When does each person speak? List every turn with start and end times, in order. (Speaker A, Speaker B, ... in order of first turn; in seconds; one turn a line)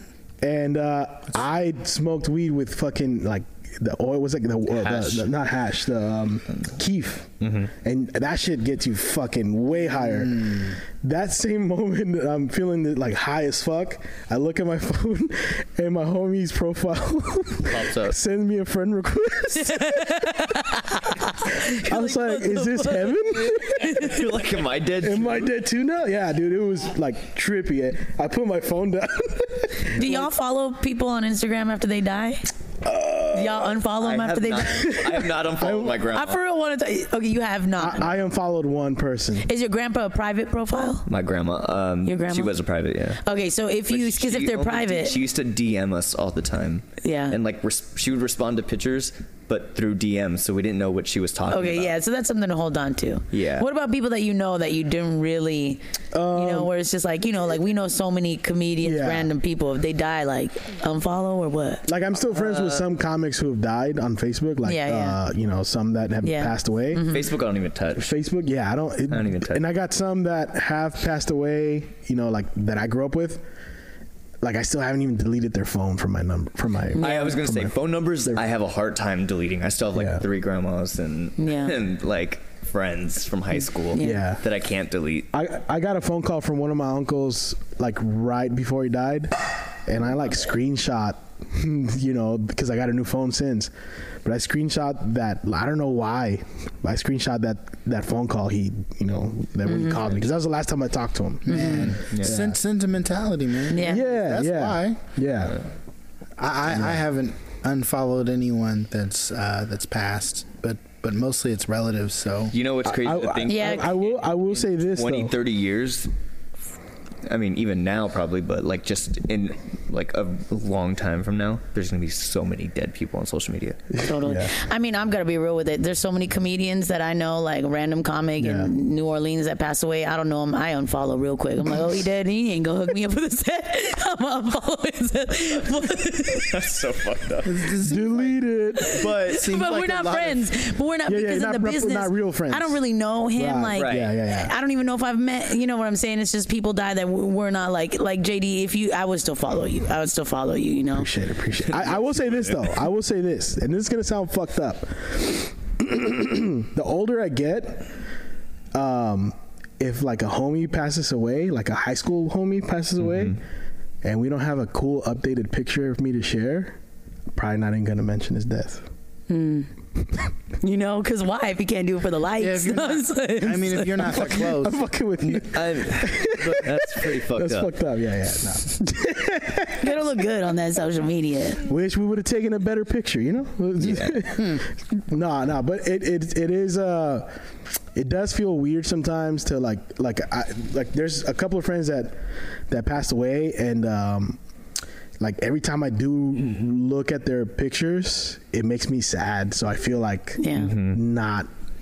Speaker A: 0.4-20.3
Speaker B: 4.7-5.3
Speaker B: 7.4-7.7
Speaker C: 10.2-10.8
Speaker B: 17.6-18.1
Speaker D: 19.7-24.1
Speaker A: 21.7-24.0
Speaker B: 23.8-25.5
Speaker A: 25.0-30.3
Speaker D: 29.9-32.4
Speaker A: 32.8-33.7
Speaker D: 33.3-35.0
Speaker B: 33.9-36.4
Speaker A: 34.9-36.0
Speaker D: 36.1-38.1
Speaker A: 37.8-39.5
Speaker D: 39.4-41.1
Speaker B: 41.1-43.2
Speaker D: 42.0-42.5
Speaker D: 43.2-45.2
Speaker B: 43.9-51.9
Speaker D: 47.0-47.4
Speaker D: 51.5-55.8
Speaker B: 53.3-53.7
Speaker A: 56.1-56.7
Speaker D: 56.3-61.8
Speaker A: 58.8-59.3
Speaker A: 61.9-67.0
Speaker B: 62.3-62.8
Speaker D: 64.6-65.2
Speaker D: 66.2-67.2
Speaker B: 67.1-68.1
Speaker A: 68.0-73.4
Speaker B: 69.1-69.6
Speaker A: 74.4-78.4
Speaker D: 77.0-77.4
Speaker B: 77.0-85.3
Speaker A: 79.9-80.2
Speaker D: 81.4-81.7
Speaker D: 83.9-84.2
Speaker A: 84.0-84.4
Speaker A: 85.3-93.7
Speaker A: 94.2-102.6
Speaker D: 99.6-100.0
Speaker C: 101.5-105.0
Speaker B: 101.5-102.4
Speaker D: 103.7-104.0
Speaker A: 103.8-105.6
Speaker C: 106.4-112.5
Speaker A: 106.7-107.0
Speaker B: 112.5-116.1
Speaker A: 112.8-115.3
Speaker D: 113.5-113.9
Speaker B: 117.2-123.8
Speaker A: 124.0-124.5
Speaker D: 124.0-136.6
Speaker A: 128.4-128.7
Speaker B: 136.5-137.8
Speaker C: 137.4-138.4
Speaker A: 137.8-138.9
Speaker D: 138.9-151.1
Speaker B: 138.9-139.4
Speaker C: 139.2-140.5
Speaker A: 141.1-142.8
Speaker A: 143.4-144.5
Speaker B: 143.7-144.1
Speaker A: 150.9-157.9
Speaker B: 151.7-152.7
Speaker A: 158.7-163.4
Speaker B: 163.0-163.3
Speaker A: 164.0-166.8
Speaker A: 167.3-168.9
Speaker D: 169.3-169.7
Speaker D: 170.6-174.4
Speaker C: 172.4-174.8
Speaker A: 174.0-180.0
Speaker B: 175.3-177.7
Speaker D: 179.8-181.6
Speaker A: 181.6-187.3
Speaker B: 183.8-184.2
Speaker A: 187.9-192.2
Speaker A: 192.7-194.4
Speaker A: 195.2-201.5
Speaker D: 200.4-200.7
Speaker B: 200.5-201.0